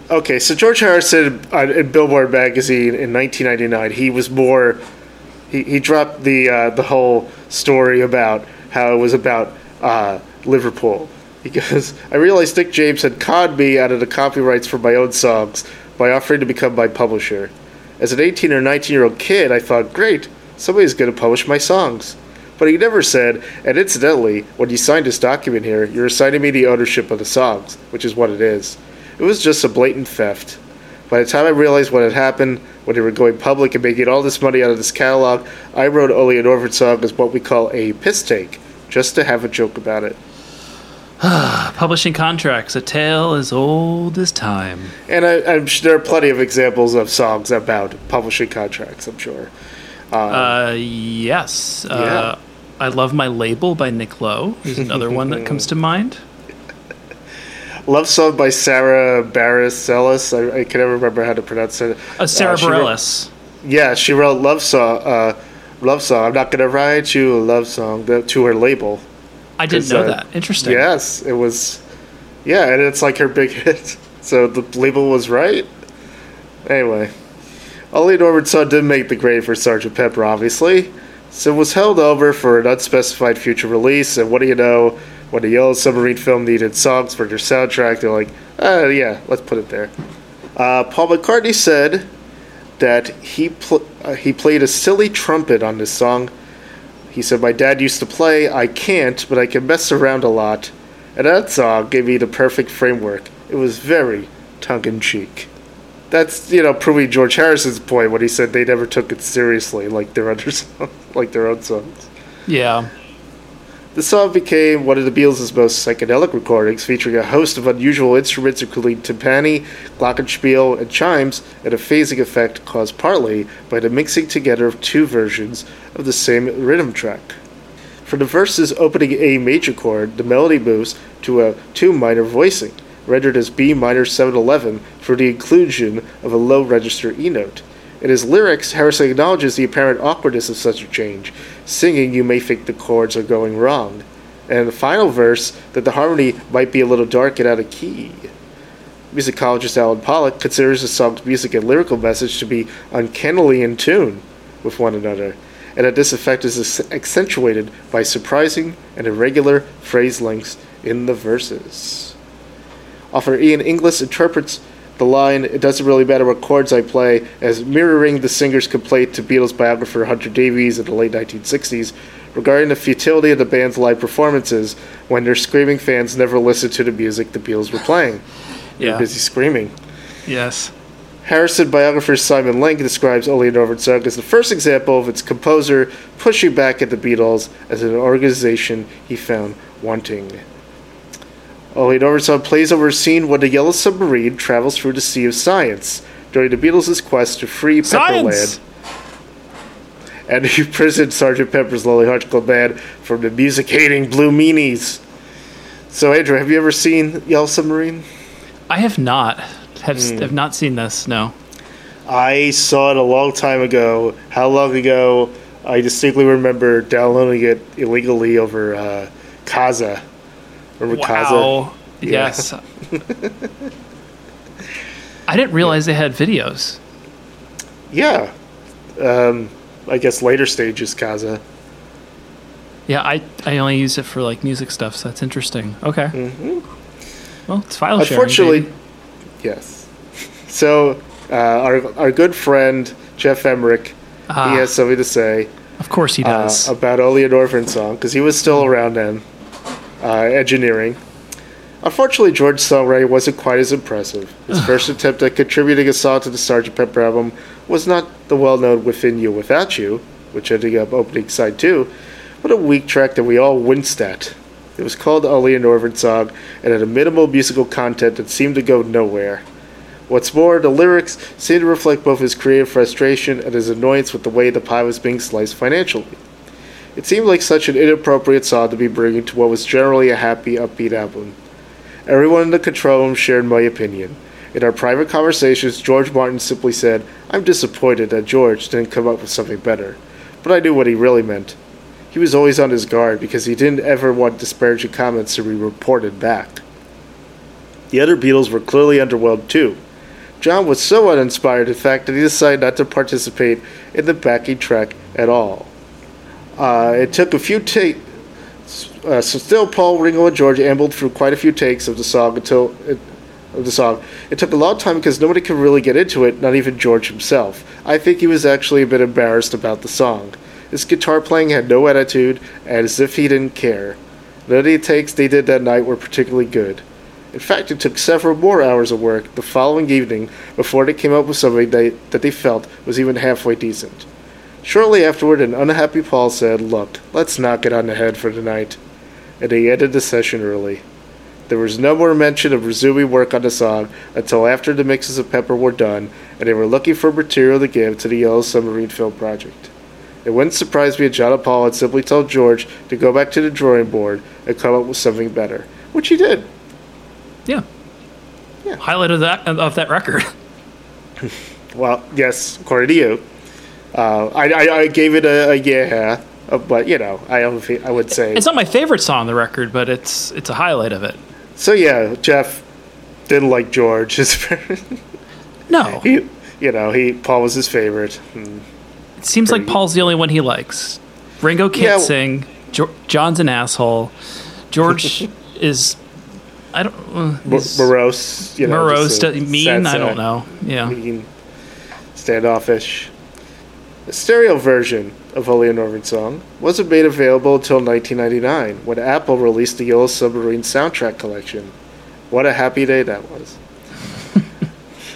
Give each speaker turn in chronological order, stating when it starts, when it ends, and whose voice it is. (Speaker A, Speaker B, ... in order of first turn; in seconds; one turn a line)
Speaker A: 0.1-4.8
Speaker A: 5.5-40.2
Speaker B: 41.2-44.9
Speaker A: 45.1-49.5
Speaker A: 50.1-50.6
Speaker B: 50.3-56.2
Speaker A: 51.9-52.3
Speaker A: 54.8-55.7
Speaker A: 57.9-63.0
Speaker B: 62.2-63.3
Speaker A: 63.6-69.0
Speaker B: 69.6-70.9
Speaker A: 69.7-71.8
Speaker A: 72.5-75.7
Speaker A: 76.7-77.1
Speaker A: 77.9-89.9
Speaker A: 90.6-92.1
Speaker A: 92.8-96.3
Speaker A: 97.1-105.5
Speaker A: 106.1-112.1
Speaker B: 112.5-112.9
Speaker A: 114.0-127.4
Speaker A: 128.1-148.3
Speaker A: 149.1-162.2
Speaker A: 163.1-178.2
Speaker B: 178.8-179.1
Speaker A: 178.8-179.7
Speaker B: 180.3-180.7
Speaker A: 181.2-190.4
Speaker A: 191.7-198.6
Speaker B: 197.8-198.6
Speaker A: 200.3-205.0
Speaker A: 205.9-208.0
Speaker B: 208.7-211.3
Speaker A: 209.9-210.3
Speaker A: 212.1-220.0
Speaker A: 220.8-223.5
Speaker B: 220.9-222.6
Speaker B: 225.3-226.8
Speaker A: 227.9-228.3
Speaker A: 229.0-231.4
Speaker B: 232.9-236.2
Speaker A: 236.1-236.6
Speaker B: 237.5-238.7
Speaker A: 238.0-238.7
Speaker A: 239.4-239.9
Speaker A: 240.5-245.5
Speaker B: 244.3-244.8
Speaker B: 245.8-246.7
Speaker A: 246.2-249.2
Speaker A: 250.0-251.0
Speaker A: 251.8-261.9
Speaker A: 262.4-269.4
Speaker A: 270.1-276.2
Speaker A: 277.0-281.4
Speaker A: 282.1-291.6
Speaker A: 292.1-296.6
Speaker A: 297.9-299.8
Speaker A: 300.4-305.7
Speaker A: 306.6-308.0
Speaker A: 308.7-334.1
Speaker A: 334.6-338.8
Speaker A: 339.4-340.8
Speaker A: 341.5-349.7
Speaker A: 350.2-356.5
Speaker B: 358.8-360.3
Speaker A: 361.2-363.2
Speaker A: 363.9-368.4
Speaker B: 368.1-371.2
Speaker A: 371.6-372.6
Speaker A: 373.3-375.0
Speaker B: 375.7-376.1
Speaker A: 376.0-378.6
Speaker B: 379.2-384.1
Speaker A: 379.4-379.8
Speaker A: 381.7-382.1
Speaker B: 384.7-386.0
Speaker B: 386.7-387.9
Speaker A: 387.4-390.2
Speaker B: 388.6-391.0
Speaker A: 390.8-391.3
Speaker A: 392.1-393.1
Speaker A: 394.1-401.7
Speaker A: 402.3-403.6